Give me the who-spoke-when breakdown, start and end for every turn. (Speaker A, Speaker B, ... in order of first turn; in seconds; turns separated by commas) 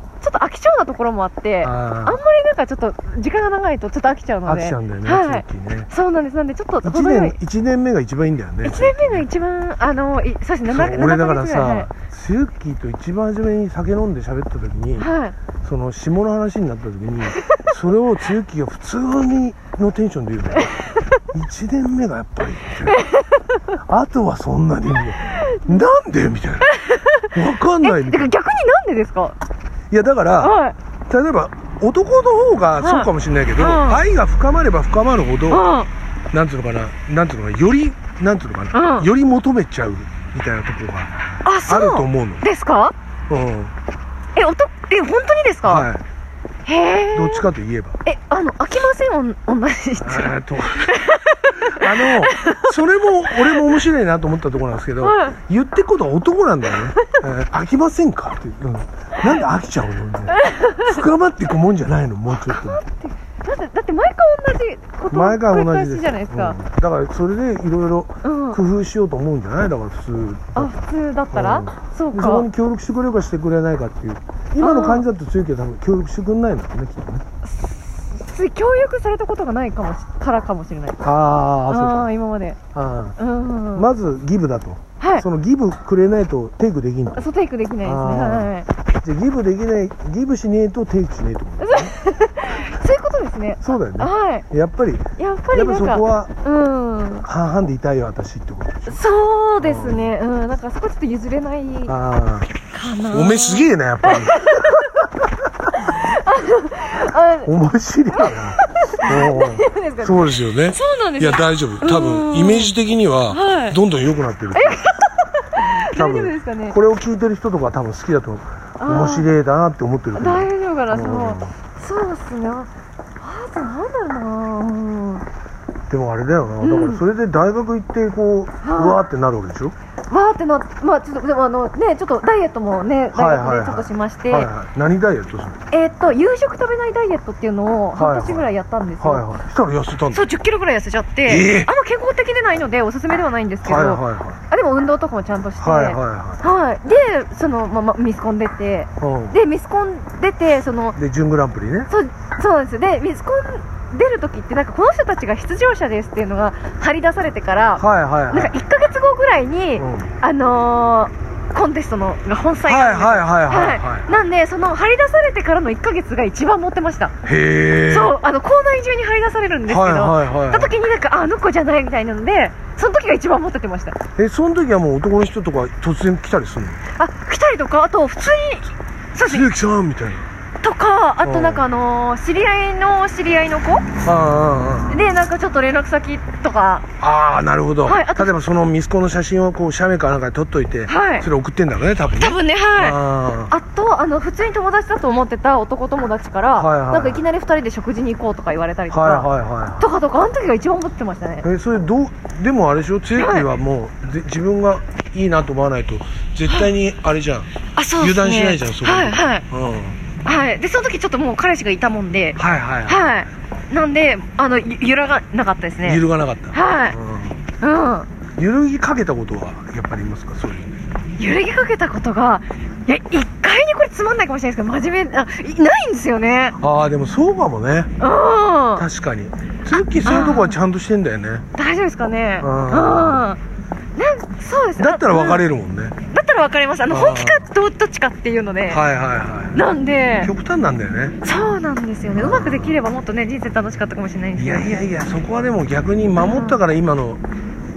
Speaker A: 0.2-7.4, Speaker B: 1.6-2.2, Speaker B: 4.4-5.9, Speaker B: 6.8-9.2, Speaker A: 8.6-11.9, Speaker B: 10.7-15.1, Speaker A: 15.0-15.3, Speaker B: 15.6-20.8, Speaker A: 17.4-17.7, Speaker A: 20.6-21.2, Speaker B: 21.3-23.0, Speaker A: 22.9-23.6, Speaker B: 23.9-26.7, Speaker A: 25.3-25.8, Speaker A: 26.7-27.3, Speaker B: 27.3-28.3, Speaker A: 27.8-29.4, Speaker B: 29.9-35.7, Speaker A: 30.4-30.7, Speaker A: 32.8-34.0, Speaker A: 35.5-35.9, Speaker B: 36.3-41.1, Speaker A: 38.7-39.1, Speaker A: 41.4-42.9, Speaker B: 41.6-42.5, Speaker B: 43.3-43.7, Speaker A: 44.3-45.9, Speaker B: 45.6-46.0, Speaker A: 46.6-47.4, Speaker B: 47.1-48.0, Speaker A: 48.0-52.7, Speaker B: 50.0-51.0, Speaker B: 51.6-62.8, Speaker A: 53.3-53.6, Speaker A: 55.0-55.4, Speaker A: 60.3-61.0, Speaker A: 62.3-66.6, Speaker B: 65.1-70.8, Speaker A: 68.2-68.6, Speaker A: 70.5-72.5, Speaker B: 71.3-77.2, Speaker A: 74.6-75.0, Speaker A: 77.4-81.0, Speaker B: 81.0-82.1, Speaker A: 81.7-82.6, Speaker B: 82.7-83.2, Speaker A: 83.2-83.9, Speaker B: 83.7-87.3, Speaker A: 85.0-85.2, Speaker A: 87.1-88.7, Speaker B: 87.8-91.9, Speaker A: 91.6-94.5, Speaker B: 93.6-96.3, Speaker A: 95.2-97.2, Speaker B: 97.2-99.0, Speaker A: 98.9-101.9, Speaker B: 99.6-100.1, Speaker B: 101.9-102.5, Speaker A: 102.7-104.9, Speaker B: 103.1-105.0, Speaker A: 105.8-107.5, Speaker B: 107.4-114.9, Speaker A: 108.1-112.7, Speaker A: 113.3-113.8, Speaker A: 114.5-116.8, Speaker B: 115.9-121.5, Speaker A: 118.8-119.3, Speaker A: 120.1-125.2, Speaker B: 125.9-129.7, Speaker A: 126.6-127.0, Speaker A: 128.6-129.0, Speaker A: 130.1-134.5, Speaker B: 133.1-135.6, Speaker A: 135.7-139.3, Speaker B: 137.9-140.2, Speaker A: 140.1-151.0, Speaker B: 141.2-141.7, Speaker B: 143.6-144.4, Speaker B: 145.6-146.4, Speaker B: 149.0-149.4, Speaker B: 150.9-151.9, Speaker A: 151.9-167.1, Speaker B: 157.8-158.6, Speaker B: 159.8-160.1, Speaker B: 162.6-164.1, Speaker B: 167.2-168.2, Speaker A: 167.9-174.0, Speaker B: 169.7-170.8, Speaker B: 174.2-176.8, Speaker A: 176.9-179.5, Speaker B: 179.2-180.2, Speaker A: 180.6-183.9, Speaker B: 181.2-181.6, Speaker B: 184.0-185.0, Speaker A: 184.9-186.8, Speaker B: 187.0-193.5, Speaker A: 187.8-188.3, Speaker A: 190.9-191.2, Speaker A: 192.1-193.0, Speaker A: 193.5-201.5, Speaker B: 196.6-197.2, Speaker B: 198.9-199.9, Speaker B: 201.4-210.0, Speaker A: 203.2-203.5, Speaker A: 207.7-209.4, Speaker A: 210.2-217.0, Speaker B: 212.3-213.2, Speaker B: 215.8-217.4, Speaker A: 217.6-218.1, Speaker B: 218.4-220.8, Speaker A: 221.2-226.6, Speaker B: 226.6-227.9, Speaker A: 228.0-228.8, Speaker B: 228.8-231.4, Speaker A: 229.9-230.6, Speaker A: 231.5-233.4, Speaker B: 232.4-233.3, Speaker A: 234.0-235.4, Speaker B: 234.8-235.9, Speaker A: 236.1-238.8, Speaker B: 236.9-237.4, Speaker B: 238.7-239.6, Speaker A: 239.5-240.3, Speaker B: 240.2-241.2, Speaker A: 241.2-244.8, Speaker B: 242.2-242.8, Speaker B: 244.3-247.2, Speaker A: 246.2-246.6